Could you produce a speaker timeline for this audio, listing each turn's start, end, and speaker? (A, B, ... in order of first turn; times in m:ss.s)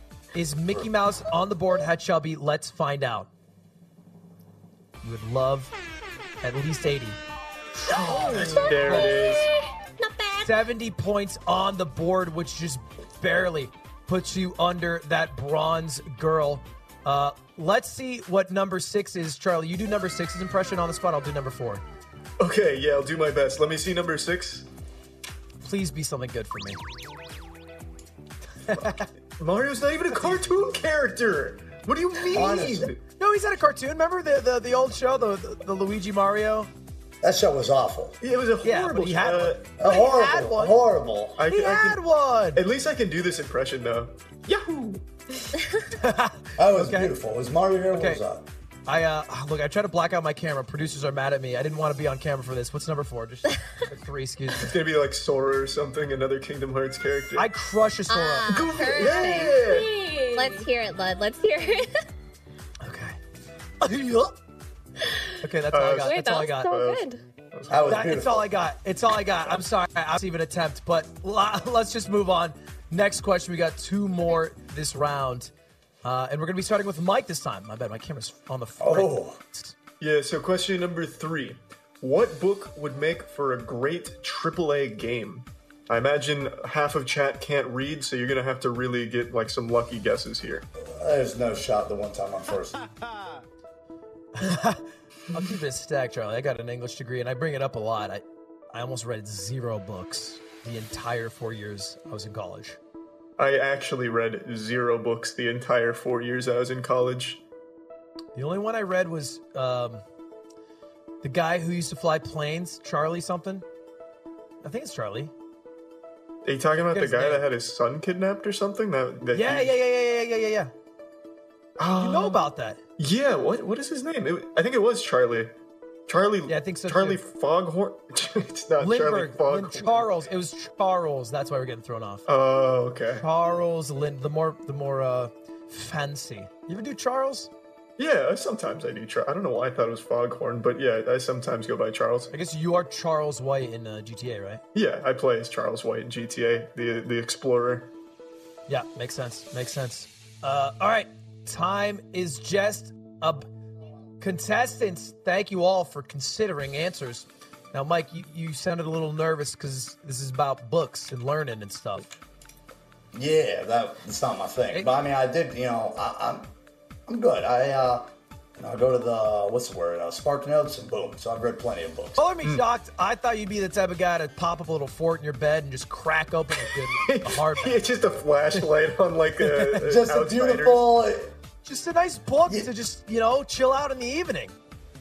0:00.3-0:03.3 A
0:05.0-0:05.7 A
0:06.4-0:07.2 A
0:07.8-0:09.2 A
0:07.9-0:09.5 B
0:07.9-0:10.6 C
0:08.1-0:08.7 D
0:10.4-0:21.8 A
0:22.4-0:24.7 B
0:25.6-0:26.8 A
0:28.7-0:29.1 A
0:28.8-0:33.0 B
0:30.1-0:30.4 A
0:32.3-0:32.9 E
0:33.2-0:36.7 A
0:37.2-0:38.2 E
0:38.2-0:39.7 B
0:38.6-0:40.8 A
0:39.8-0:41.4 E
0:41.4-0:45.5 B
0:41.5-0:42.6 A
0:45.9-0:47.1 A
0:46.6-0:48.5 E
0:47.9-0:48.2 A
0:48.9-0:54.7 A
0:54.6-0:57.5 B
0:57.4-0:58.7 A
0:58.1-0:59.6 D
0:58.5-0:59.9 B
0:59.0-1:00.7 C
1:00.3-1:02.0 D
1:02.8-1:03.2 A
1:03.8-1:04.4 A
1:05.4-1:06.8 A
1:05.7-1:08.1 B
1:06.0-1:07.2 D
1:07.7-1:08.5 E
1:07.9-1:15.5 A
1:16.0-1:19.7 A
1:18.8-1:19.4 E
1:20.0-1:30.7 B
1:30.8-1:32.8 E
1:34.4-1:42.8 A
1:43.4-1:47.4 B
1:48.4-1:50.0 A
1:51.2-1:53.6 A
1:54.6-1:55.3 A
1:56.4-1:59.7 B
1:56.9-1:57.5 A
1:59.3-2:00.7 A
2:01.8-2:02.4 B
2:02.0-2:02.8 A
2:03.0-2:05.5 B
2:06.1-2:10.2 B
2:06.5-2:07.2 A
2:08.8-2:12.3 A
2:12.3-2:13.3 B
2:13.2-2:17.5 A
2:18.0-2:22.3 B
2:22.3-2:24.6 A
2:24.7-2:27.9 B
2:28.7-2:33.5 A
2:34.2-2:42.1 A
2:43.1-2:46.5 E
2:47.1-2:52.2 E
2:52.2-2:57.8 A
2:56.9-3:00.9 B
2:59.4-2:59.8 A
2:59.8-3:01.3 E
3:01.6-3:04.6 A